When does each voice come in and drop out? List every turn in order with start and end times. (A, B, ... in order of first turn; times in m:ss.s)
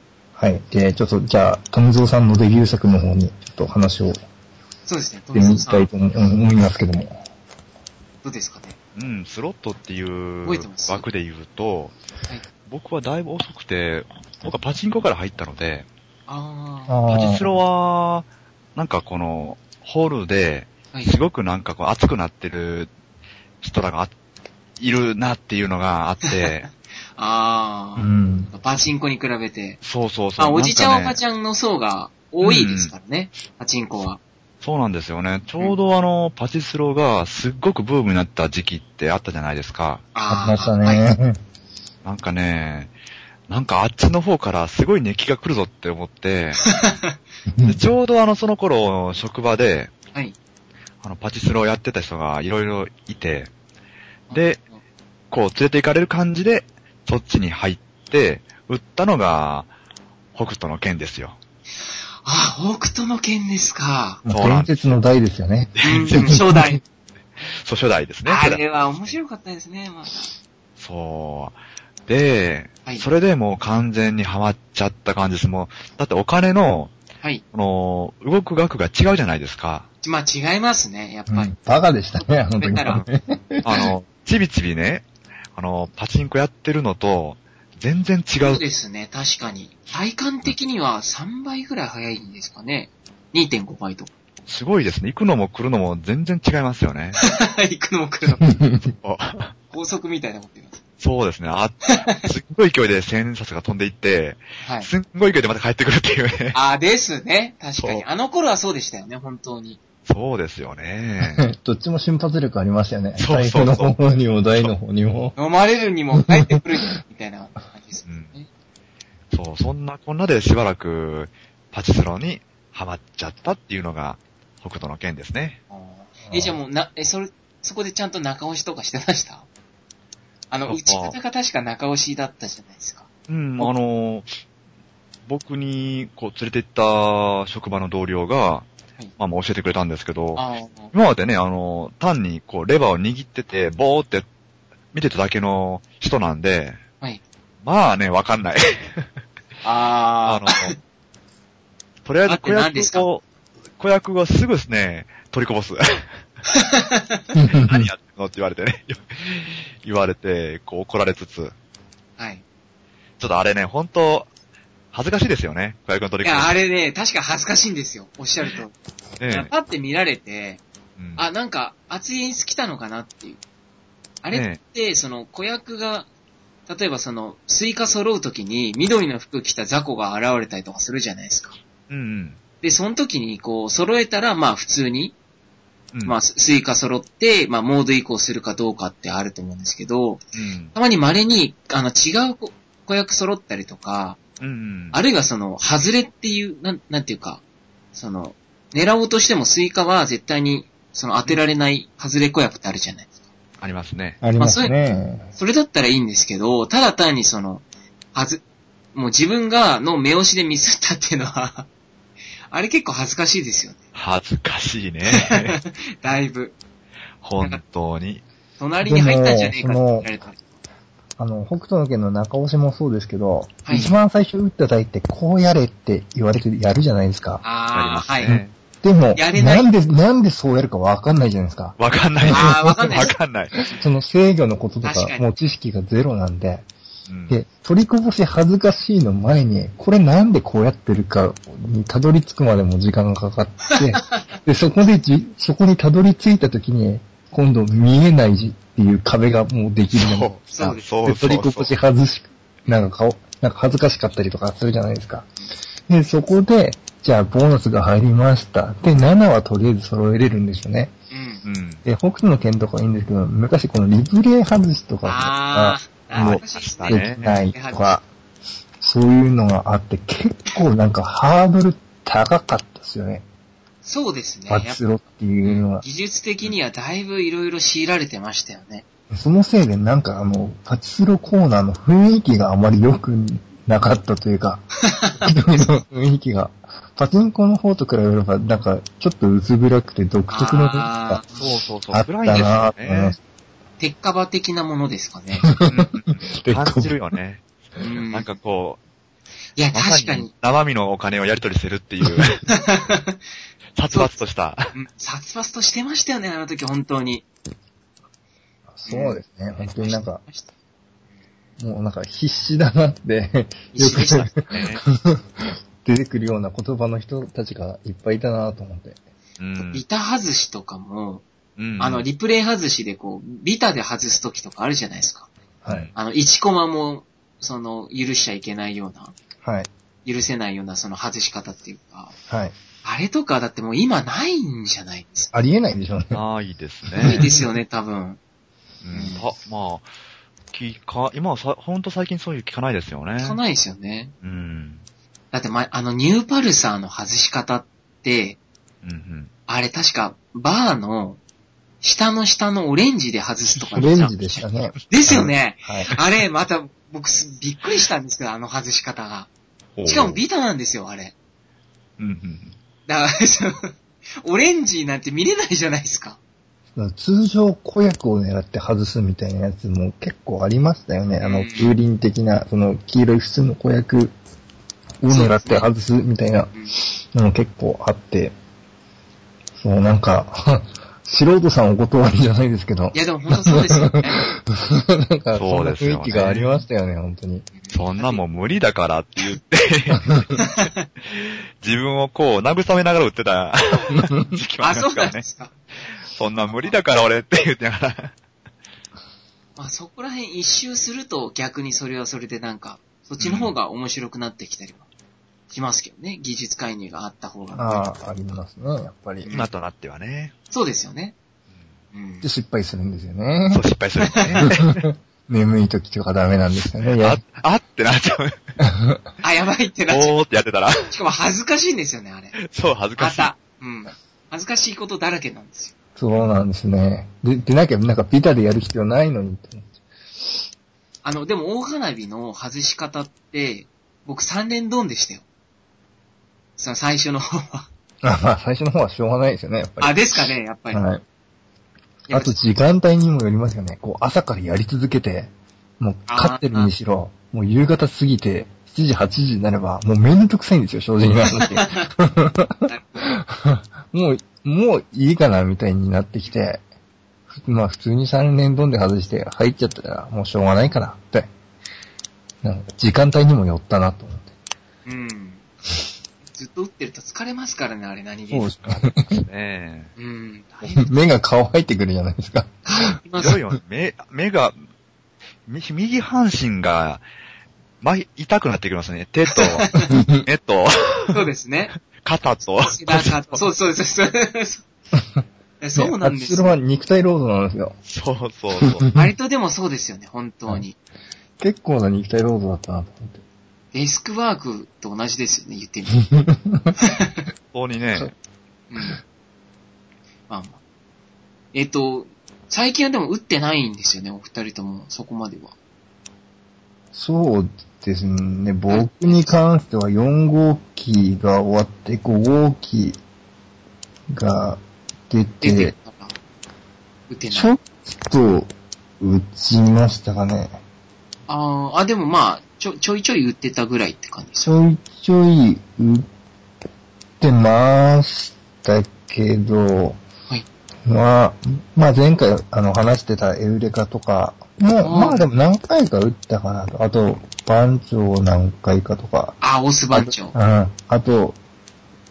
0:00.4-0:04.2 A
0:04.8-0:05.9 B
0:05.3-0:07.2 A
0:08.2-0:08.8 B
0:09.0-0:12.0 C
0:10.4-0:11.0 B
0:12.6-0:15.8 C
0:16.3-0:17.0 B
0:16.9-0:17.5 A
0:17.1-0:22.9 C
0:23.6-0:24.1 C
0:24.8-0:26.7 C
0:26.2-0:26.5 B
0:27.2-0:29.8 B
0:28.0-0:28.5 A
0:29.8-0:31.2 C
0:30.4-0:34.2 B
0:32.4-0:32.9 C
0:34.6-0:40.0 C
0:40.1-0:41.0 B
0:40.3-0:41.4 A
0:42.0-0:42.9 C
0:43.5-0:46.6 C
0:46.6-0:47.2 B
0:47.5-0:47.8 A
0:47.6-0:49.9 C
0:51.0-0:53.5 C
0:54.3-0:54.8 B
0:54.3-0:54.6 C
0:55.3-0:59.7 C
1:00.3-1:01.4 C
1:02.2-1:04.2 B
1:04.2-1:06.6 A
1:04.3-1:04.8 C
1:05.8-1:06.4 C
1:05.8-1:06.8 B
1:07.5-1:08.6 C
1:08.2-1:10.3 B
1:10.8-1:16.9 C
1:17.5-1:19.9 C
1:20.0-1:21.5 B
1:21.3-1:23.9 A
1:22.2-1:23.0 B
1:23.6-1:28.6 C
1:28.4-1:34.1 B
1:34.5-1:37.2 C
1:37.2-1:38.5 B
1:38.4-1:38.9 A
1:39.0-1:39.5 C
1:39.7-1:40.8 B
1:41.0-1:46.6 C
1:41.9-1:42.2 B
1:44.6-1:44.9 B
1:46.5-1:49.8 B
1:47.8-1:48.0 C
1:50.0-1:51.4 C
1:51.2-1:55.3 A
1:53.2-1:53.9 C
1:55.4-1:58.5 B
1:56.2-1:56.6 A
1:58.0-1:58.4 C
1:59.3-2:05.6 C
2:05.7-2:09.4 B
2:06.2-2:06.6 A
2:10.5-2:13.1 B
2:10.7-2:11.2 C
2:13.3-2:14.3 C
2:15.3-2:18.7 C
2:19.2-2:24.3 C
2:20.4-2:20.9 B
2:24.9-2:26.8 C
2:27.6-2:29.1 C
2:29.6-2:30.7 B
2:30.2-2:30.7 C
2:32.0-2:33.2 C
2:32.3-2:33.1 B
2:33.8-2:36.1 C
2:36.5-2:37.2 B
2:37.3-2:37.9 A
2:37.5-2:41.5 C
2:42.2-2:42.4 B
2:43.2-2:44.3 C
2:44.9-2:46.6 C
2:46.2-2:48.7 B
2:49.2-2:49.5 C
2:49.3-2:50.6 B
2:51.0-2:51.2 C
2:51.2-2:53.4 B
2:54.2-2:56.1 B
2:54.3-2:54.6 C
2:56.7-3:01.6 B
3:01.9-3:02.4 C
3:02.6-3:05.1 B
3:06.0-3:10.2 B
3:10.3-3:10.7 C
3:10.7-3:14.2 B
3:14.4-3:15.0 C
3:14.9-3:17.4 B
3:17.9-3:23.1 B
3:23.6-3:24.2 C
3:24.2-3:25.3 A
3:24.4-3:24.7 B
3:25.3-3:28.4 B
3:28.9-3:31.7 B
3:32.5-3:33.8 B
3:33.9-3:35.6 C
3:35.1-3:36.6 B
3:37.2-3:38.2 C
3:38.6-3:40.4 B
3:38.8-3:40.1 A
3:41.2-3:47.4 A
3:43.6-3:43.9 B
3:47.4-3:48.4 B
3:47.7-3:48.5 C
3:48.2-3:53.1 A
3:49.2-3:49.7 B
3:51.8-3:53.6 C
3:52.3-3:53.1 B
3:53.7-3:56.7 A
3:54.8-3:55.2 B
3:57.1-3:57.4 C
3:57.3-4:15.3 A
4:03.7-4:04.3 B
4:09.9-4:11.8 C
4:10.5-4:10.9 B
4:15.9-4:20.9 A
4:21.1-4:21.4 B
4:21.4-4:21.8 C
4:21.8-4:28.0 A
4:25.0-4:28.0 B
4:26.1-4:27.4 C
4:28.8-4:33.2 A
4:33.8-4:34.8 B
4:34.5-4:35.8 A
4:35.4-4:38.8 B
4:39.1-4:44.6 A
4:44.8-4:45.8 B
4:45.2-4:51.2 A
4:50.3-4:51.5 B
4:51.4-4:53.2 C
4:51.9-4:53.2 A
4:53.8-4:55.5 B
4:55.5-4:56.9 A
4:55.7-4:58.8 C
4:57.8-4:58.3 B
4:59.6-5:00.3 B
4:59.7-5:02.4 C
5:02.5-5:03.2 B
5:03.8-5:04.7 C
5:03.9-5:04.2 B
5:04.7-5:07.2 B
5:08.7-5:10.2 A
5:08.9-5:10.5 B
5:11.6-5:19.0 A
5:13.7-5:14.3 B
5:14.3-5:14.8 C
5:19.4-5:19.8 C
5:19.6-5:21.2 B
5:21.6-5:22.1 C
5:21.8-5:25.3 B
5:25.6-5:25.9 A
5:25.7-5:25.9 C
5:25.9-5:29.1 B
5:29.4-5:29.7 A
5:30.0-5:32.1 B
5:32.3-5:32.5 A
5:32.8-5:35.3 B
5:35.3-5:36.2 A
5:36.1-5:37.3 C
5:37.0-5:37.3 A
5:37.0-5:38.2 B
5:38.8-5:39.9 C
5:38.9-5:39.2 B
5:40.5-5:43.4 C
5:43.2-5:44.1 B
5:44.2-5:44.8 C
5:45.3-5:48.4 B
5:48.8-5:49.3 C
5:49.5-5:51.2 B
5:51.8-5:59.3 B
5:53.7-5:55.9 A
5:59.8-6:00.2 C
5:59.8-6:01.1 B
6:02.0-6:02.5 C
6:02.9-6:06.2 B
6:06.7-6:14.1 A
6:11.2-6:11.7 B
6:15.0-6:16.5 A
6:15.1-6:15.7 B
6:17.1-6:18.3 A
6:19.6-6:27.5 A
6:22.9-6:24.3 B
6:25.3-6:26.6 C
6:27.5-6:28.2 B
6:27.7-6:30.3 C
6:30.4-6:30.9 B
6:31.0-6:35.2 C
6:33.9-6:34.3 A
6:34.6-6:35.5 B
6:36.1-6:38.1 C
6:36.4-6:36.8 B
6:39.6-6:44.8 B
6:43.2-6:43.5 C
6:45.5-6:47.9 B
6:47.5-6:49.3 A
6:49.2-6:49.5 B
6:49.3-6:50.3 C
6:50.5-6:51.1 B
6:51.9-6:52.2 B
6:52.2-6:53.6 A
6:53.5-6:54.8 C
6:54.0-6:54.6 B
6:54.4-6:57.2 A
6:56.5-6:58.4 C
6:58.6-6:59.0 A
6:59.2-7:00.2 B
6:59.9-7:00.9 C
7:00.9-7:02.4 B
7:02.4-7:03.3 C
7:03.0-7:05.7 B
7:06.0-7:09.6 A
7:11.0-7:15.2 B
7:16.6-7:17.7 B
7:18.0-7:21.0 A
7:19.8-7:20.8 B
7:22.1-7:22.4 B
7:22.1-7:36.6 A
7:26.1-7:26.7 B
7:31.3-7:31.9 B
7:32.7-7:33.1 B
7:37.3-7:41.3 A
7:42.4-7:44.3 A
7:44.8-7:45.4 B
7:46.3-7:48.5 B
7:48.3-7:49.2 A
7:48.7-7:49.9 C
7:50.0-7:50.9 B
7:50.6-7:52.6 A
7:52.6-7:53.4 B
7:53.2-7:54.6 C
7:55.5-7:57.0 C
7:57.8-8:01.2 C
7:59.3-7:59.9 B
7:59.9-8:00.2 A
8:01.1-8:01.7 B
8:01.9-8:03.4 C
8:02.6-8:04.6 B
8:04.9-8:05.2 A
8:05.6-8:06.6 B
8:05.8-8:07.8 A
8:07.8-8:08.9 C
8:08.6-8:09.1 A
8:08.9-8:10.8 B
8:11.4-8:13.2 A
8:13.7-8:16.1 B
8:15.9-8:16.7 A
8:16.8-8:17.2 B
8:17.5-8:18.1 C
8:18.7-8:19.0 B
8:20.3-8:20.6 B
8:21.5-8:25.5 B
8:26.9-8:33.0 A
8:28.7-8:29.4 B
8:34.1-8:35.7 A
8:35.4-8:36.2 B
8:37.1-8:37.5 B
8:37.3-8:40.6 A
8:41.3-8:44.5 B
8:44.4-8:46.0 A
8:47.2-8:50.0 A
8:50.8-8:59.4 A
8:54.8-8:55.3 B
8:59.4-9:00.3 B
8:59.9-9:01.4 A